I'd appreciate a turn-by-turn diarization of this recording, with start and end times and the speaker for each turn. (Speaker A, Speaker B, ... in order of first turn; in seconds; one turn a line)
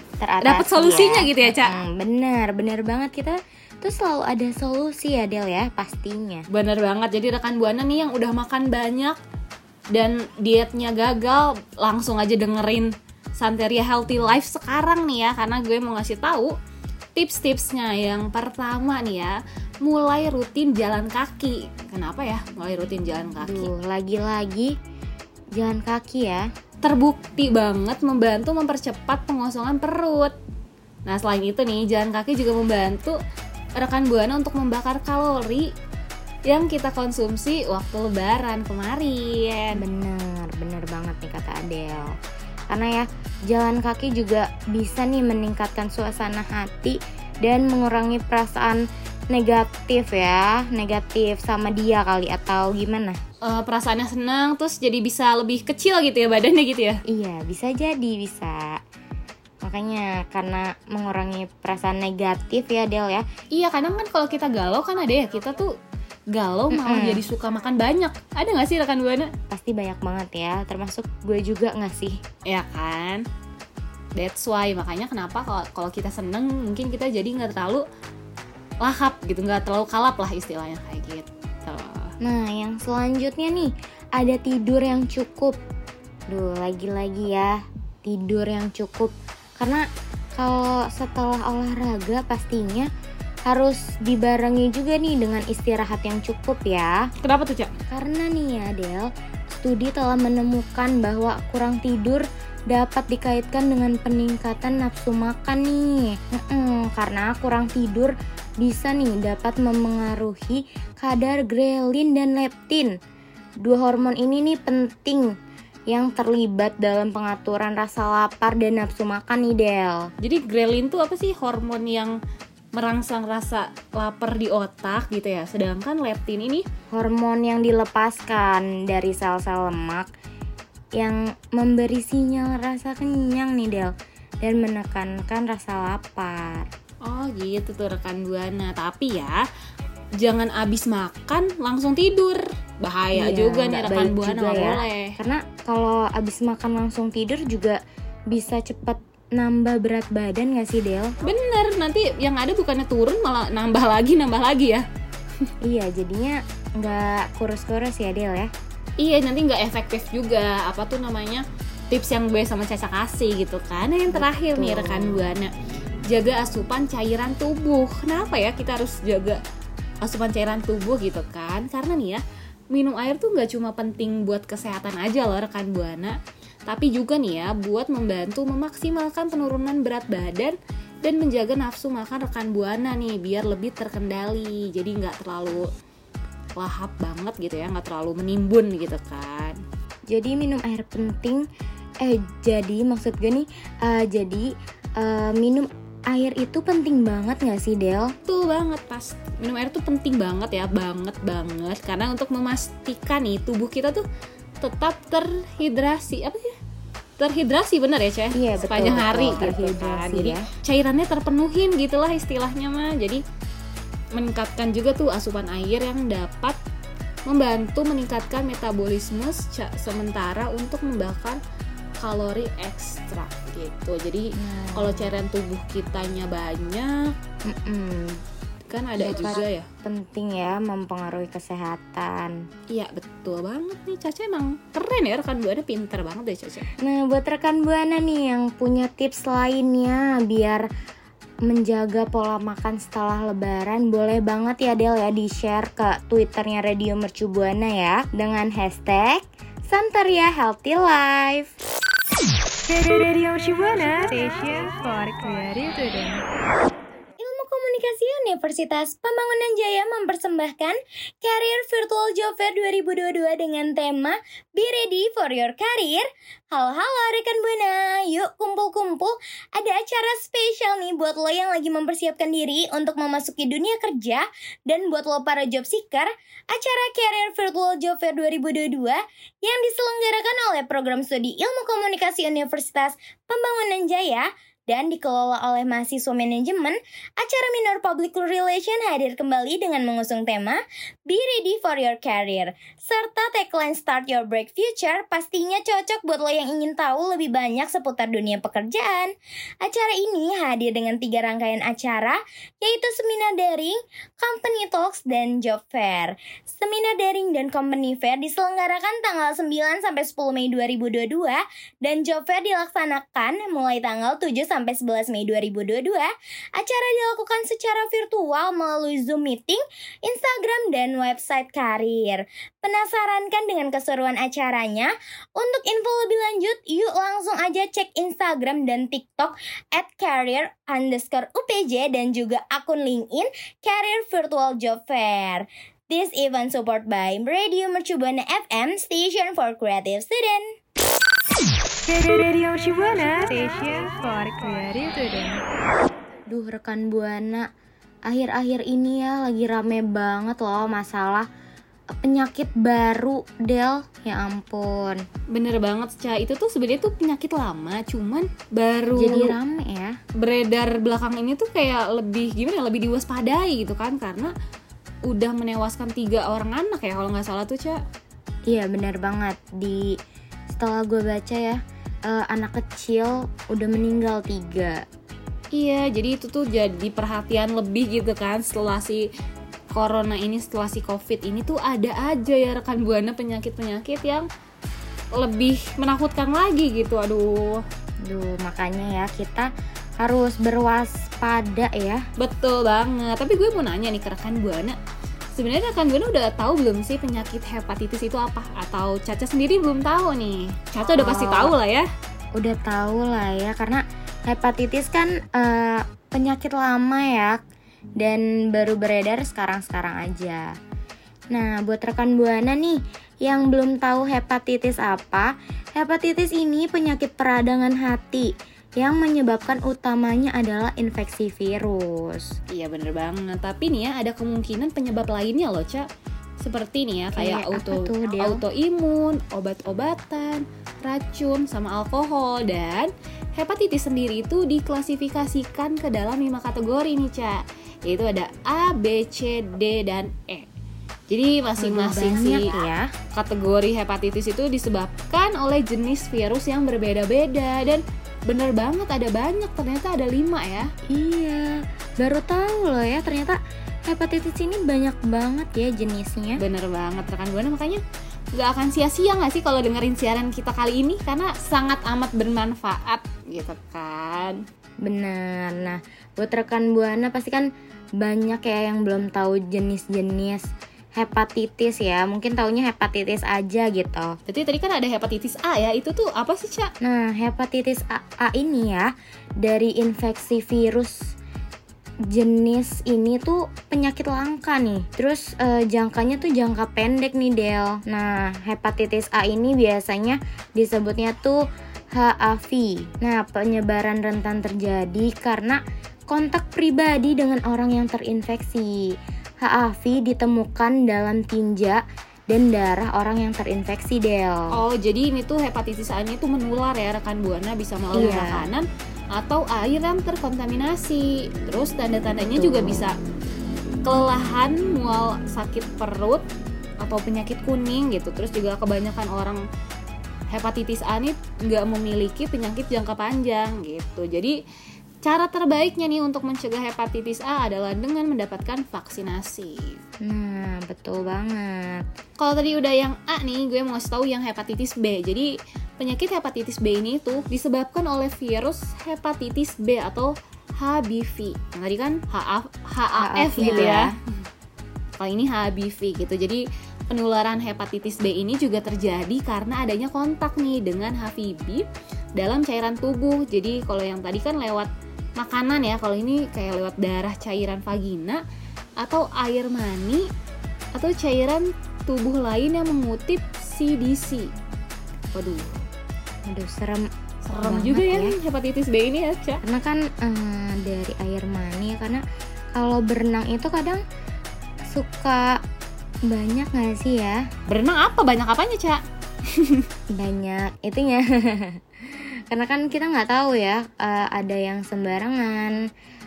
Speaker A: 0.2-6.5
Speaker B: 0.4-1.8
Speaker B: 6.5-9.2
Speaker B: 9.9-16.5
Speaker B: 17.1-23.7
Speaker A: 23.4-24.7
Speaker A: 25.6-26.5
Speaker B: 26.8-30.4
Speaker B: 31.1-33.2
Speaker B: 33.8-35.7
Speaker B: 36.5-39.8
Speaker A: 39.8-42.1
Speaker A: 42.7-53.2
Speaker B: 53.4-57.0
Speaker A: 57.1-58.8
Speaker A: 59.6-63.2
Speaker B: 63.5-65.7
Speaker B: 66.3-69.3
Speaker A: 66.7-67.3
Speaker A: 69.5-72.2
Speaker B: 72.5-73.2
Speaker B: 74.2-77.8
Speaker B: 78.8-82.1
Speaker A: 82.2-85.6
Speaker A: 86.3-89.8
Speaker A: 90.4-92.9
Speaker A: 93.5-97.0
Speaker B: 97.2-97.7
Speaker A: 97.9-113.0
Speaker A: 113.6-115.3
Speaker A: 115.9-120.1
Speaker B: 120.2-122.2
Speaker B: 122.8-126.6
Speaker A: 126.9-130.1
Speaker A: 131.0-133.9
Speaker A: 134.4-136.7
Speaker B: 137.0-139.4
Speaker B: 140.2-145.2
Speaker A: 143.1-147.8
Speaker A: 148.3-151.1
Speaker B: 151.2-154.8
Speaker A: 155.7-158.5
Speaker B: 159.0-165.5
Speaker A: 164.1-165.3
Speaker B: 166.1-169.4
Speaker B: 170.0-176.2
Speaker B: 176.7-185.7
Speaker B: 186.6-189.6
Speaker A: 190.1-191.4
Speaker A: 192.0-194.5
Speaker A: 195.0-198.1
Speaker B: 198.2-204.0
Speaker B: 204.6-206.5
Speaker B: 207.2-213.2
Speaker A: 208.3-210.4
Speaker B: 214.1-216.6
Speaker B: 217.3-221.4
Speaker B: 222.0-227.1
Speaker A: 224.4-225.1
Speaker A: 227.5-228.2
Speaker B: 228.7-229.7
Speaker A: 229.0-232.4
Speaker B: 232.7-236.7
Speaker A: 236.8-240.7
Speaker A: 241.5-251.5
Speaker C: 252.7-256.2
Speaker A: 257.2-299.1
Speaker A: 299.6-340.5
Speaker C: 341.9-345.4
Speaker A: 346.3-347.5
Speaker A: 348.1-351.3
Speaker A: 351.9-355.0
Speaker B: 355.3-359.4
Speaker A: 358.9-359.9
Speaker B: 360.2-364.3
Speaker B: 365.1-367.8
Speaker A: 368.5-369.9
Speaker A: 370.5-374.8
Speaker B: 375.5-379.1
Speaker B: 379.7-384.3
Speaker B: 385.1-387.6
Speaker A: 388.1-389.5
Speaker A: 390.0-392.0
Speaker B: 392.2-394.8
Speaker B: 395.4-401.9
Speaker A: 400.9-401.6
Speaker A: 402.4-407.4
Speaker A: 408.0-410.5
Speaker A: 411.3-422.4
Speaker B: 422.5-425.9
Speaker B: 426.4-440.5
Speaker A: 427.1-428.4
Speaker B: 441.1-442.5
Speaker A: 441.6-442.9
Speaker B: 443.1-450.7
Speaker A: 450.9-453.4
Speaker A: 453.9-456.4
Speaker B: 456.4-457.8
Speaker B: 458.4-464.4
Speaker A: 464.8-467.5
Speaker A: 468.0-470.4
Speaker A: 471.0-474.1
Speaker B: 474.3-476.7
Speaker A: 476.8-478.9
Speaker A: 479.4-481.1
Speaker A: 482.1-491.4
Speaker A: 491.9-495.6
Speaker A: 496.1-498.8
Speaker A: 499.4-501.8
Speaker A: 502.3-504.6
Speaker B: 504.5-513.0
Speaker A: 507.9-508.5
Speaker A: 512.3-512.9
Speaker B: 513.8-516.2
Speaker B: 516.8-519.4
Speaker B: 520.3-524.4
Speaker B: 525.0-529.8
Speaker A: 530.0-531.8
Speaker B: 532.2-543.9
Speaker A: 543.0-544.0
Speaker B: 545.0-558.2
Speaker B: 558.8-560.1
Speaker B: 560.8-564.3
Speaker B: 565.1-565.6
Speaker A: 566.3-568.2
Speaker B: 567.2-569.4
Speaker A: 569.4-572.0
Speaker A: 572.5-573.8
Speaker A: 574.7-575.4
Speaker A: 576.1-577.2
Speaker B: 577.5-578.8
Speaker B: 579.3-579.7
Speaker A: 580.0-585.5